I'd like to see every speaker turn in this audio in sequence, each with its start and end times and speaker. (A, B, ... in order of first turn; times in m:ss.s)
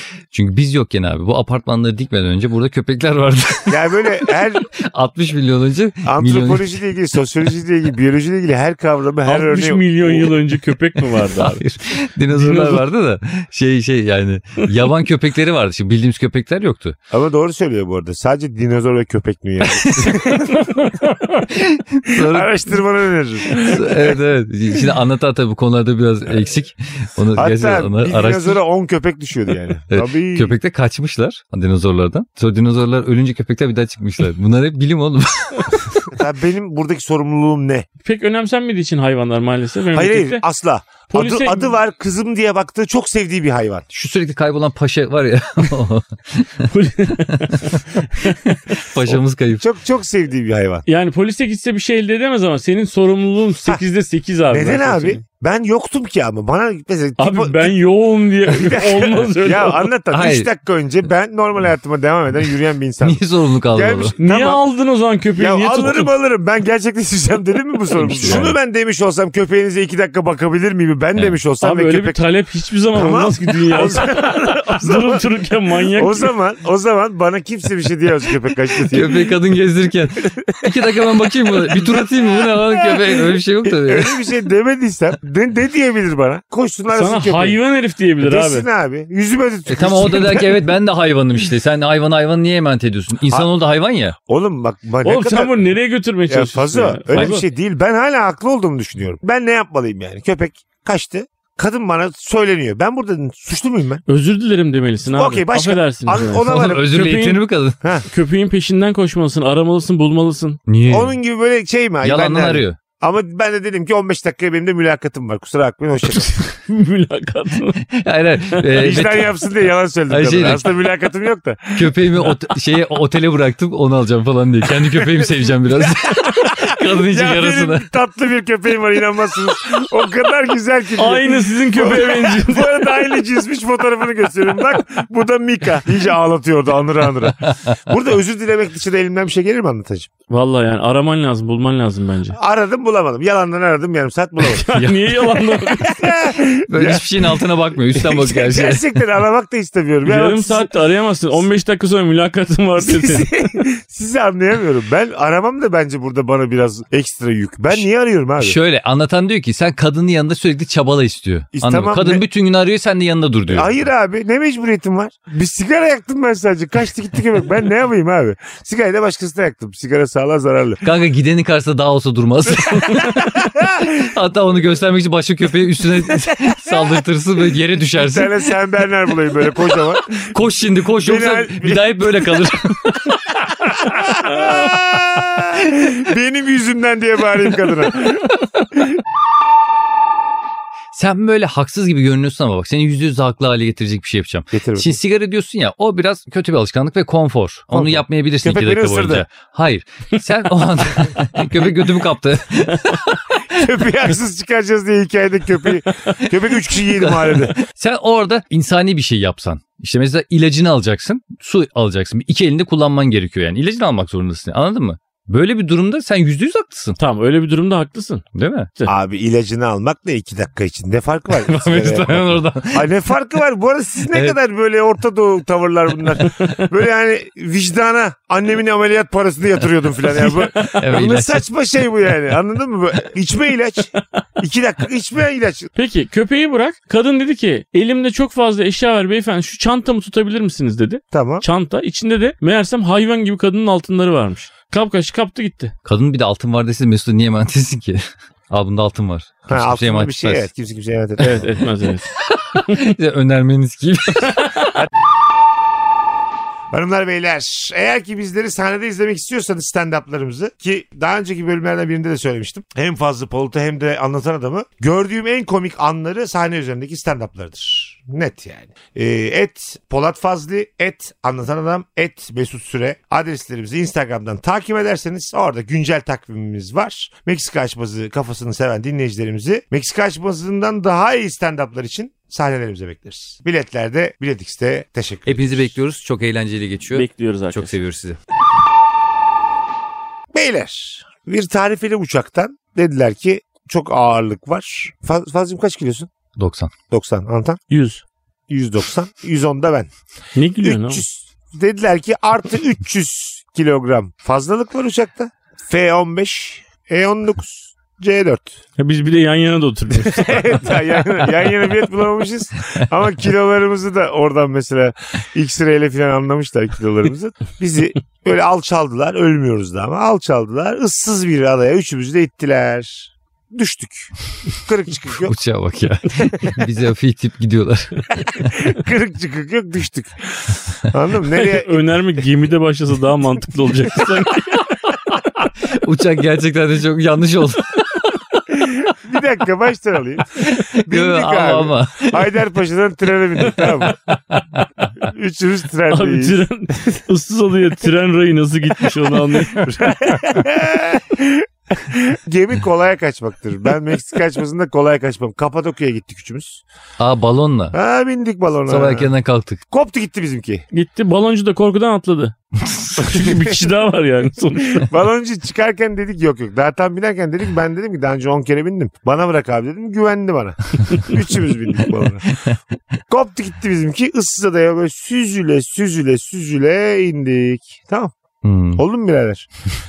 0:00.3-0:06.8 A
0:03.7-0:04.7 B
0:06.0-0:10.3 B
0:09.3-0:11.6 C
0:11.2-0:17.0 A
0:12.3-0:12.8 C
0:17.1-0:21.4 B
0:19.6-0:20.5 A
0:21.5-0:22.7 A
0:22.1-0:24.2 B
0:23.5-0:28.6 A
0:27.3-0:30.5 B
0:29.9-0:36.2 A
0:36.1-0:37.9 B
0:38.0-0:40.4 C
0:39.9-0:43.8 B
0:41.1-0:41.7 C
0:43.9-0:46.7 A
0:46.7-0:48.4 C
0:47.2-0:49.6 A
0:49.6-0:50.8 B
0:50.8-0:55.2 C
0:54.5-0:57.8 B
0:57.2-0:59.9 C
0:58.5-1:04.6 B
1:00.1-1:00.5 A
1:03.0-1:04.1 A
1:04.2-1:06.1 C
1:05.4-1:12.2 B
1:08.0-1:08.6 A
1:08.2-1:08.5 C
1:11.6-1:16.3 C
1:12.9-1:15.2 B
1:15.9-1:19.3 B
1:18.9-1:24.2 A
1:21.7-1:27.6 B
1:26.9-1:28.6 C
1:28.2-1:30.6 B
1:29.7-1:34.2 A
1:34.3-1:35.6 B
1:35.0-1:37.4 C
1:36.3-1:44.0 B
1:44.1-1:47.4 C
1:45.1-1:46.9 B
1:46.4-1:47.8 A
1:48.1-1:50.6 C
1:50.7-1:51.2 A
1:50.9-1:56.4 B
1:52.0-1:52.8 A
1:56.2-1:57.8 C
1:57.8-1:59.4 A
1:58.8-2:02.0 B
2:00.1-2:00.7 A
2:01.8-2:07.9 A
2:06.0-2:20.1 B
2:11.0-2:13.0 C
2:17.4-2:17.7 A
2:20.3-2:22.4 C
2:22.3-2:24.7 B
2:24.4-2:26.0 C
2:24.7-2:25.2 A
2:25.6-2:30.7 B
2:26.7-2:28.9 A
2:30.0-2:33.3 C
2:32.8-2:38.6 B
2:38.4-2:43.8 A
2:41.5-2:42.2 B
2:43.5-2:50.8 B
2:50.8-2:58.4 A
2:52.9-2:54.1 B
2:57.9-3:00.3 B
3:00.3-3:03.2 A
3:01.0-3:02.3 B
3:03.4-3:09.0 B
3:10.9-3:23.4 A
3:14.5-3:15.0 B
3:17.7-3:19.2 B
3:23.5-3:27.6 B
3:26.8-3:37.0 A
3:37.0-3:38.2 C
3:38.3-3:38.7 A
3:38.8-3:55.7 B
3:41.4-3:42.9 A
3:44.1-3:44.4 A
3:50.7-3:51.4 A
3:55.8-4:05.7 C
4:01.1-4:01.4 B
4:05.8-4:10.4 A
4:09.4-4:11.5 B
4:11.2-4:12.1 C
4:12.2-4:14.7 A
4:14.2-4:14.7 C
4:16.7-4:45.7 B
4:45.2-4:48.2 A
4:46.9-4:47.7 C
4:50.3-4:56.1 B
4:56.4-4:56.7 A
4:56.9-4:57.6 B
4:57.7-4:58.0 C
4:58.5-4:59.9 B
5:00.3-5:01.0 C
5:00.6-5:08.5 B
5:08.8-5:10.5 C
5:10.0-5:25.4 B
5:25.2-5:28.5 A
5:28.2-5:31.8 B
5:31.3-5:34.7 C
5:35.6-5:38.1 A
5:38.5-5:44.0 B
5:40.4-5:42.3 A
5:44.1-5:44.6 A
5:45.0-5:47.0 B
5:45.9-5:49.7 C
5:49.6-5:56.6 B
5:57.0-5:57.7 A
5:57.7-5:59.1 B
5:58.7-5:59.6 A
5:59.7-6:00.6 B
6:00.7-6:02.3 C
6:03.0-6:04.9 C
6:03.0-6:03.6 B
6:04.8-6:12.3 B
6:13.1-6:18.1 B
6:18.4-6:18.8 A
6:18.7-6:19.5 B